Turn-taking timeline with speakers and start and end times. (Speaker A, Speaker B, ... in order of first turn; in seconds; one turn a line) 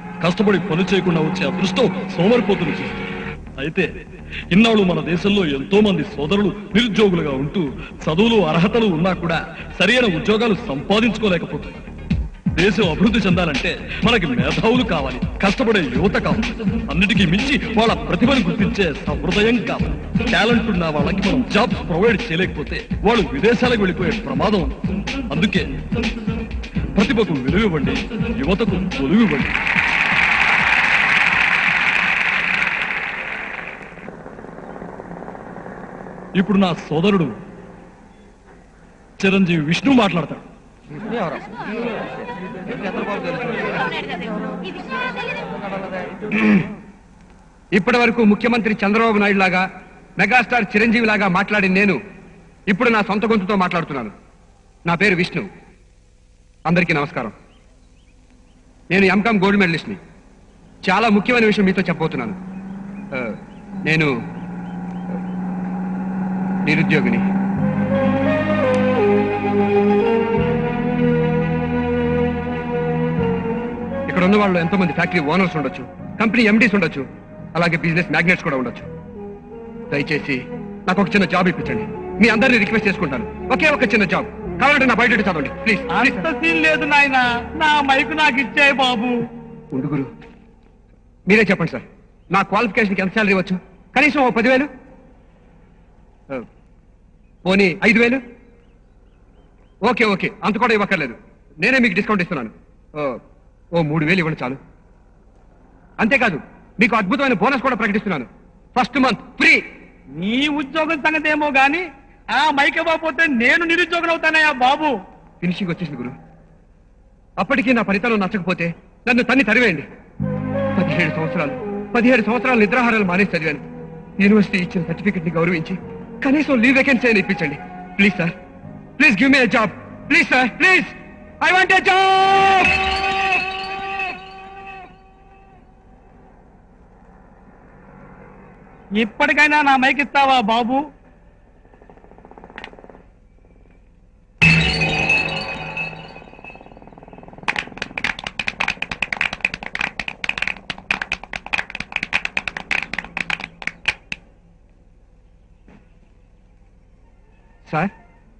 Speaker A: 0.2-3.9
Speaker A: 4.5-11.8
Speaker A: 12.6-24.8
Speaker A: 25.3-25.6
Speaker A: 26.9-29.5
Speaker A: 36.3-37.3
Speaker A: 39.2-40.4
Speaker B: 47.7-49.6
Speaker B: 50.2-52.0
Speaker B: 52.7-54.1
Speaker B: 54.9-55.5
Speaker B: 56.7-57.3
Speaker B: 58.9-60.0
Speaker B: 60.9-62.4
Speaker B: 66.7-67.2
Speaker B: 74.1-77.0
Speaker B: 77.5-78.9
Speaker B: 79.9-86.3
Speaker C: 85.9-89.2
Speaker B: 89.7-90.1
Speaker B: 91.3-94.7
Speaker B: 97.5-98.2
Speaker B: 99.8-103.2
Speaker B: 103.7-104.6
Speaker B: 106.0-109.6
Speaker C: 110.1-115.0
Speaker B: 115.4-116.1
Speaker B: 117.4-119.8
Speaker B: 120.8-123.6
Speaker B: 124.2-128.3
Speaker B: 129.0-132.9
Speaker C: 138.9-140.8